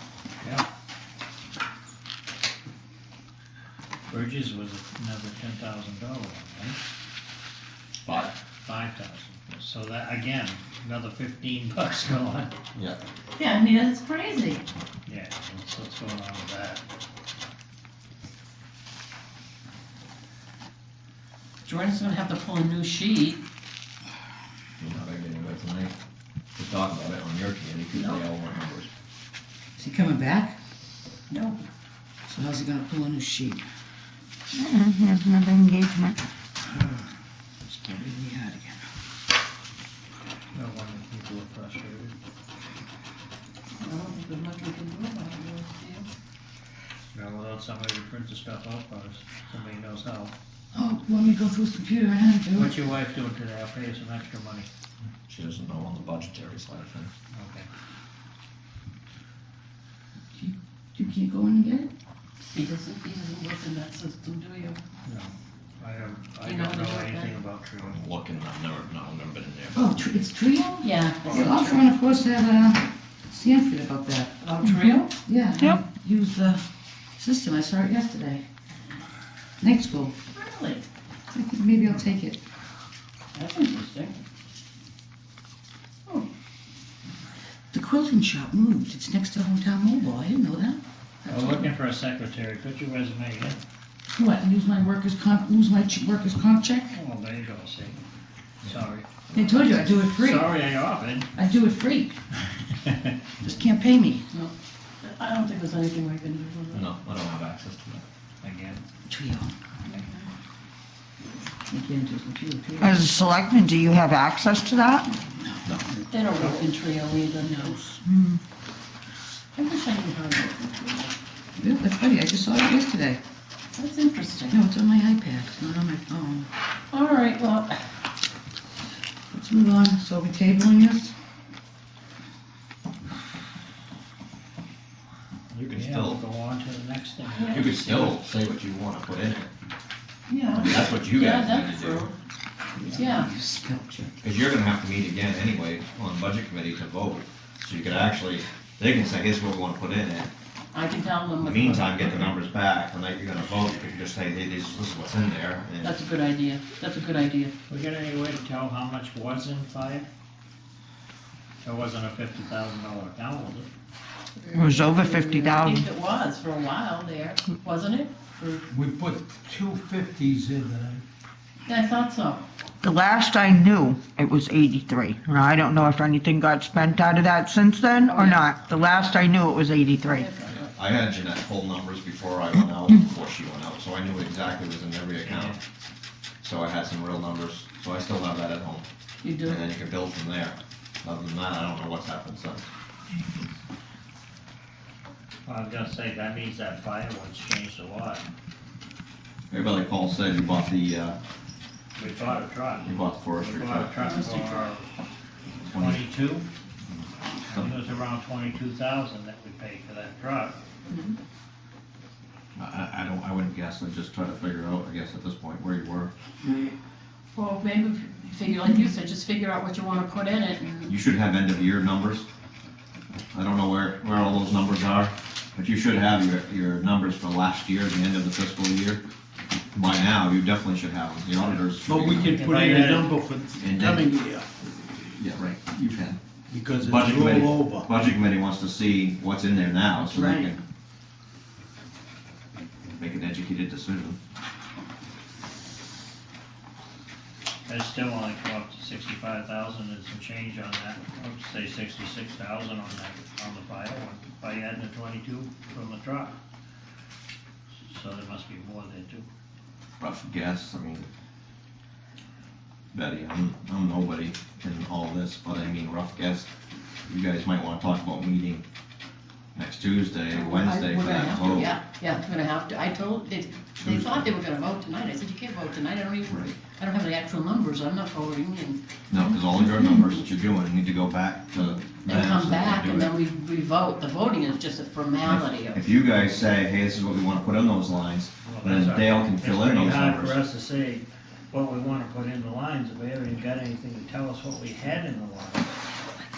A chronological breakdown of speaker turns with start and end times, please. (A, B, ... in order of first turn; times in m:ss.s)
0:00.4-0:00.6 A
0:04.1-0:06.8 A
0:08.0-0:08.3 B
0:08.6-0:12.6 A
0:13.4-0:14.6 C
0:15.0-0:16.8 A
0:21.6-0:23.4 C
0:24.8-0:25.9 B
0:26.6-0:28.9 B
0:27.9-0:28.2 C
0:29.8-0:30.6 D
0:31.3-0:31.6 C
0:32.3-0:33.6 D
0:34.6-0:36.2 E
0:37.7-0:38.8 D
0:40.5-0:42.2 A
0:43.8-0:46.1 C
0:47.1-0:50.3 A
0:50.7-0:52.8 D
0:52.5-0:54.7 A
0:55.3-0:57.1 B
0:57.3-0:57.7 A
1:00.3-1:01.9 D
1:02.4-1:04.8 C
1:05.0-1:08.0 A
1:06.4-1:07.3 C
1:07.8-1:09.8 B
1:09.7-1:14.3 D
1:10.8-1:11.9 C
1:14.4-1:15.1 C
1:15.2-1:16.6 D
1:17.2-1:18.4 D
1:19.6-1:20.1 D
1:20.3-1:20.8 C
1:21.3-1:22.4 D
1:23.3-1:24.2 C
1:27.7-1:31.7 D
1:31.2-1:33.6 A
1:34.1-1:37.0 D
1:36.9-1:38.0 A
1:38.6-1:39.5 B
1:38.6-1:41.3 A
1:39.3-1:40.5 D
1:41.3-1:42.2 D
1:43.4-1:44.3 D
1:44.3-1:46.9 C
1:46.7-1:48.0 B
1:48.4-1:48.8 A
1:49.1-1:49.6 D
1:49.9-1:50.3 C
1:51.7-1:53.2 D
1:52.8-1:55.1 E
1:55.2-1:56.0 D
1:56.1-1:57.8 C
1:56.4-1:56.6 A
1:57.4-1:57.9 D
1:58.1-1:58.4 E
1:59.5-2:01.1 C
2:01.6-2:03.2 D
2:03.8-2:04.6 C
2:04.5-2:06.5 D
2:06.9-2:07.8 C
2:09.3-2:11.1 D
2:15.5-2:18.2 A
2:15.6-2:16.2 B
2:17.4-2:17.7 C
2:17.5-2:19.5 B
2:20.3-2:22.1 C
2:20.5-2:22.1 B
2:22.7-2:24.2 D
2:22.9-2:23.3 C
2:24.2-2:30.3 B
2:30.7-2:32.3 C
2:31.4-2:36.0 B
2:35.8-2:37.5 C
2:37.7-2:40.1 A
2:41.6-2:43.7 A
2:44.4-2:48.6 C
2:44.5-2:45.9 E
2:48.7-2:51.0 F
2:51.7-2:52.4 C
2:52.8-3:00.3 E
2:57.9-2:58.5 C
3:00.0-3:00.6 C
3:00.5-3:05.6 B
3:05.2-3:05.6 A
3:06.4-3:08.9 B
3:09.2-3:09.6 C
3:09.4-3:12.7 B
3:15.5-3:18.2 A
3:19.5-3:21.2 B
3:22.0-3:24.9 A
3:22.8-3:23.9 B
3:24.0-3:24.7 C
3:25.6-3:26.1 B
3:25.7-3:26.5 A
3:26.9-3:27.8 B
3:27.5-3:30.6 A
3:30.9-3:31.2 C
3:32.6-3:36.1 B
3:37.3-3:40.9 C
3:40.9-3:42.3 B
3:43.3-3:49.0 B
3:49.7-3:52.4 B
3:51.8-3:54.5 F
3:52.0-3:53.1 A
3:53.6-3:54.1 B
3:55.0-3:56.2 B
3:56.5-3:58.0 F
3:56.8-4:00.6 B
4:03.0-4:04.2 B
4:07.7-4:16.3 A
4:17.8-4:19.2 A
4:20.0-4:21.1 B
4:22.9-4:26.5 B
4:27.1-4:28.6 B
4:29.5-4:31.8 B
4:30.3-4:40.1 C
4:33.8-4:34.3 B
4:36.3-4:36.6 B
4:39.1-4:43.1 B
4:42.0-4:45.8 C
4:45.2-4:50.4 B
4:48.4-4:55.8 A